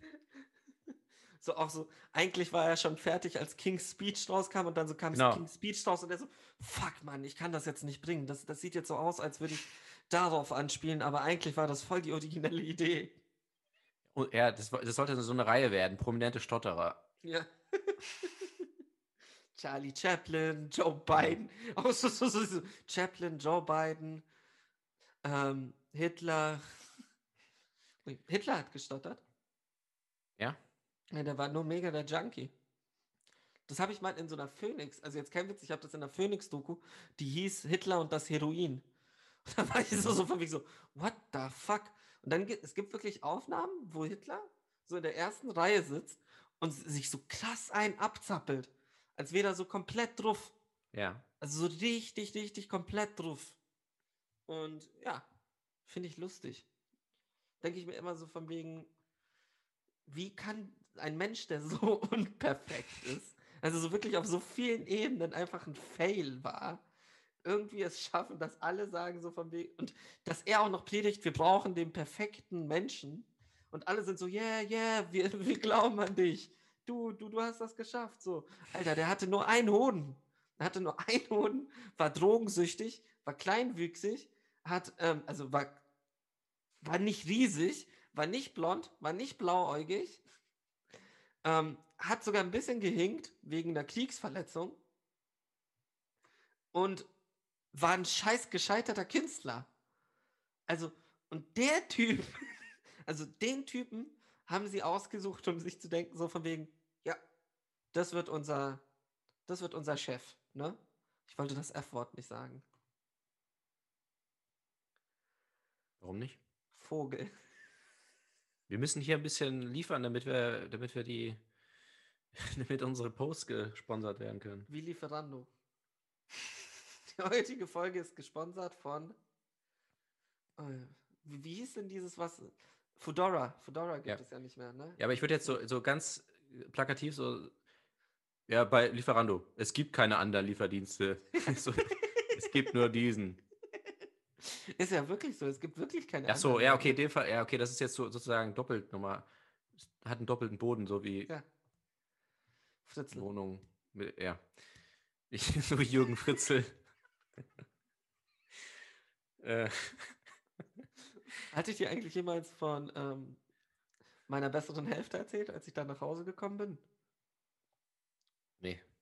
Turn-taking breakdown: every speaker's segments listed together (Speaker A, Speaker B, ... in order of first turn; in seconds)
Speaker A: 1.4-13.1, 17.2-18.6, 19.5-24.2, 25.2-26.6, 28.0-29.2, 31.1-32.5, 33.7-38.8, 39.5-50.5, 51.4-53.6, 54.5-55.2, 55.9-56.6, 57.6-58.9, 60.1-66.8, 67.4-85.7, 86.8-90.2, 91.4-94.8, 96.7-97.1, 97.7-99.7, 100.7-107.2, 107.9-108.8, 109.5-112.6, 116.7-117.3, 124.7-125.5, 127.0-129.2, 130.6-135.5, 141.4-142.6, 144.4-147.0, 152.8-153.2, 161.5-163.4, 164.3-166.8
Speaker B: 5.1-5.4, 14.1-17.0, 39.9-40.2, 50.9-51.2, 116.0-116.4, 118.7-121.4, 122.3-124.7, 135.0-137.5, 138.5-143.4, 146.3-149.2, 150.0-151.3, 153.1-154.4, 155.3-156.8, 159.4-160.2